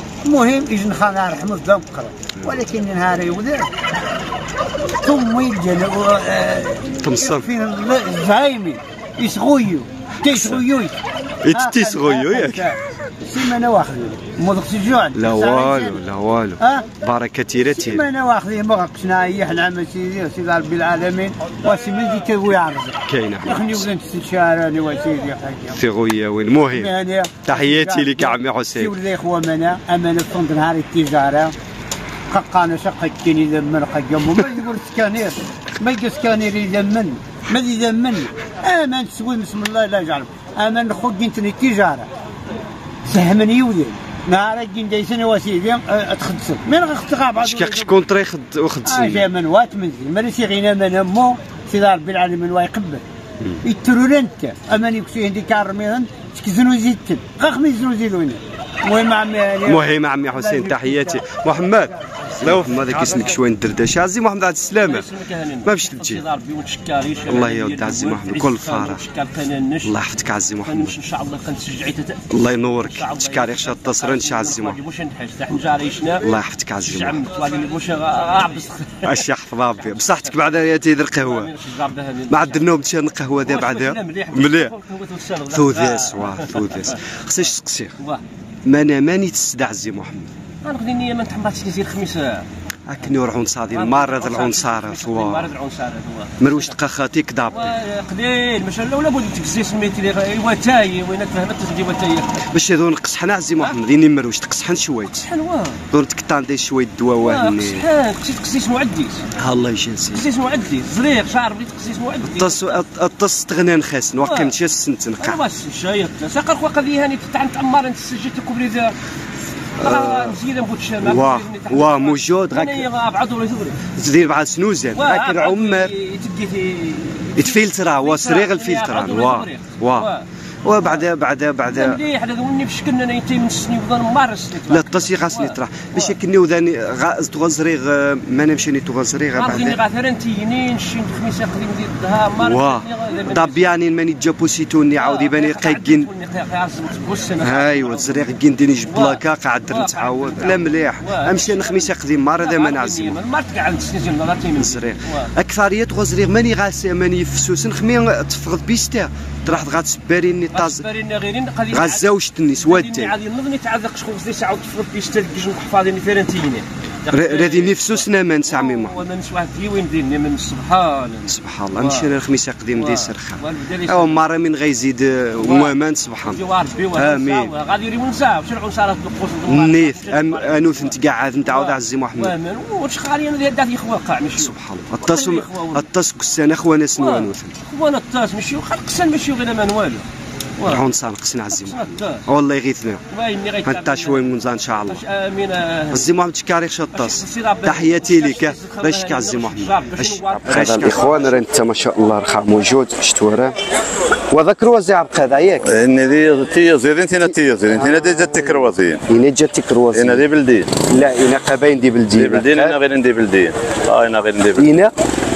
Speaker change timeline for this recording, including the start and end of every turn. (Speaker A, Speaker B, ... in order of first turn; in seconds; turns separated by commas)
Speaker A: 0.2-3.7, Speaker A: 5.0-11.0, Speaker B: 7.0-7.5, Speaker B: 10.3-10.6, Speaker B: 11.4-12.7, Speaker A: 11.5-16.0, Speaker B: 15.2-18.1, Speaker A: 16.6-16.9, Speaker A: 17.7-25.8, Speaker B: 23.1-23.9, Speaker B: 25.8-26.9, Speaker A: 26.7-31.5, Speaker B: 27.4-28.9, Speaker A: 32.3-42.1, Speaker A: 43.1-48.0, Speaker B: 47.4-49.3, Speaker A: 48.9-53.0, Speaker A: 53.6-61.2, Speaker B: 59.6-65.1, Speaker C: 62.4-63.4, Speaker C: 64.8-70.0, Speaker B: 65.7-66.2, Speaker B: 67.3-69.0, Speaker B: 69.8-71.0, Speaker C: 70.7-72.2, Speaker B: 72.3-74.8, Speaker C: 72.8-76.3, Speaker B: 76.2-77.2, Speaker C: 76.8-80.4, Speaker B: 79.0-81.5, Speaker C: 81.2-82.7, Speaker B: 82.3-84.7, Speaker C: 83.4-87.0, Speaker B: 85.5-88.0, Speaker B: 88.7-90.3, Speaker C: 90.6-92.5, Speaker B: 92.9-95.5, Speaker C: 93.7-96.7, Speaker B: 96.4-97.7, Speaker C: 97.5-102.5, Speaker B: 102.5-105.3, Speaker C: 105.1-105.8, Speaker B: 105.9-107.8, Speaker C: 107.2-109.2, Speaker B: 109.4-110.2, Speaker C: 110.1-112.7, Speaker B: 112.3-115.4, Speaker C: 114.2-114.5, Speaker C: 115.2-118.9, Speaker B: 119.8-120.4, Speaker C: 119.8-123.8, Speaker B: 121.0-122.9, Speaker B: 124.0-125.9, Speaker C: 124.9-131.0, Speaker B: 127.3-130.1, Speaker B: 130.7-132.0, Speaker C: 131.7-136.1, Speaker B: 134.7-139.8, Speaker C: 139.3-143.7, Speaker B: 142.4-146.1, Speaker C: 144.9-148.3, Speaker B: 147.4-153.2, Speaker C: 148.9-155.3, Speaker B: 154.6-160.9, Speaker C: 160.5-162.1, Speaker B: 161.7-163.2, Speaker C: 162.6-172.1, Speaker B: 167.1-169.0, Speaker B: 171.3-176.4, Speaker C: 172.8-174.2, Speaker C: 175.4-175.7, Speaker C: 176.3-185.8, Speaker B: 176.9-177.5, Speaker B: 179.5-182.3, Speaker B: 184.4-187.5, Speaker C: 187.0-190.1, Speaker C: 190.6-190.8, Speaker B: 190.7-193.0, Speaker C: 191.5-192.2, Speaker C: 193.1-196.1, Speaker B: 193.7-195.0, Speaker B: 195.9-203.6, Speaker C: 196.9-201.4, Speaker B: 204.3-205.8, Speaker D: 205.7-209.0, Speaker B: 207.3-210.2, Speaker D: 209.9-210.7, Speaker B: 210.9-212.8, Speaker D: 212.2-214.7, Speaker B: 214.6-214.9